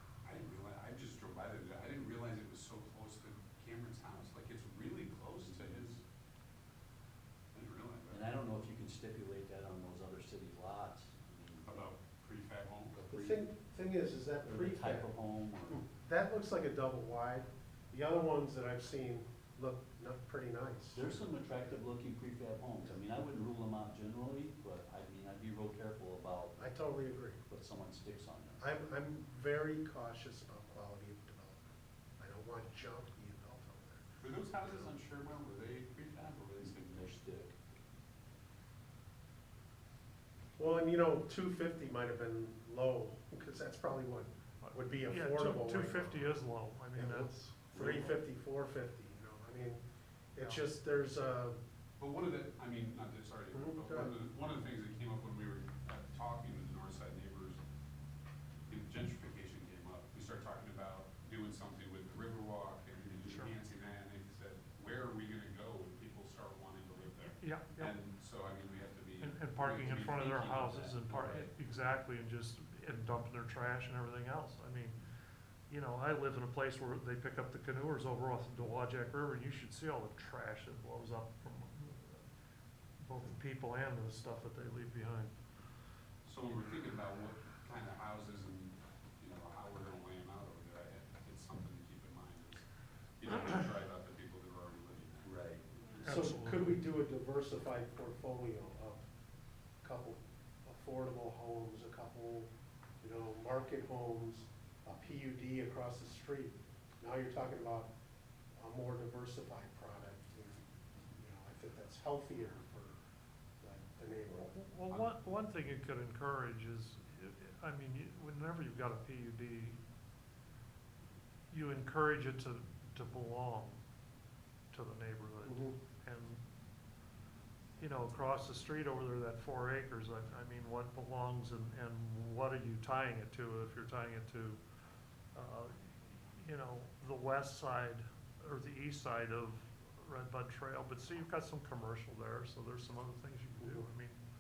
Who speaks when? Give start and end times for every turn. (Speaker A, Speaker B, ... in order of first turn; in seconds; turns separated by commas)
Speaker A: 0.2-6.0, Speaker A: 7.5-8.3, Speaker B: 8.1-11.9, Speaker A: 11.7-13.0, Speaker B: 12.9-13.5, Speaker C: 13.1-15.1, Speaker B: 14.4-15.8, Speaker C: 15.7-21.8, Speaker B: 20.9-26.6, Speaker C: 26.6-27.4, Speaker B: 27.5-28.6, Speaker C: 28.6-31.6, Speaker C: 32.2-34.1, Speaker A: 34.2-36.9, Speaker B: 36.6-37.5, Speaker C: 40.6-46.4, Speaker D: 44.6-47.3, Speaker C: 46.9-49.8, Speaker A: 47.7-48.1, Speaker C: 50.4-51.6, Speaker A: 52.0-57.6, Speaker C: 53.5-54.1, Speaker A: 58.7-71.5, Speaker D: 63.2-63.5, Speaker D: 67.4-68.0, Speaker D: 69.2-75.0, Speaker D: 75.7-82.2, Speaker D: 83.0-85.3, Speaker A: 86.2-92.7, Speaker A: 93.2-95.3, Speaker B: 95.2-95.6, Speaker D: 96.0-96.8, Speaker C: 96.0-99.0, Speaker C: 99.8-102.5, Speaker C: 103.0-107.9, Speaker C: 108.6-110.6, Speaker C: 111.2-113.0, Speaker C: 113.6-114.5, Speaker D: 114.4-119.8, Speaker A: 114.9-115.2, Speaker D: 121.5-123.8, Speaker D: 124.7-126.4, Speaker C: 125.5-125.8, Speaker D: 127.8-134.6, Speaker D: 135.3-144.2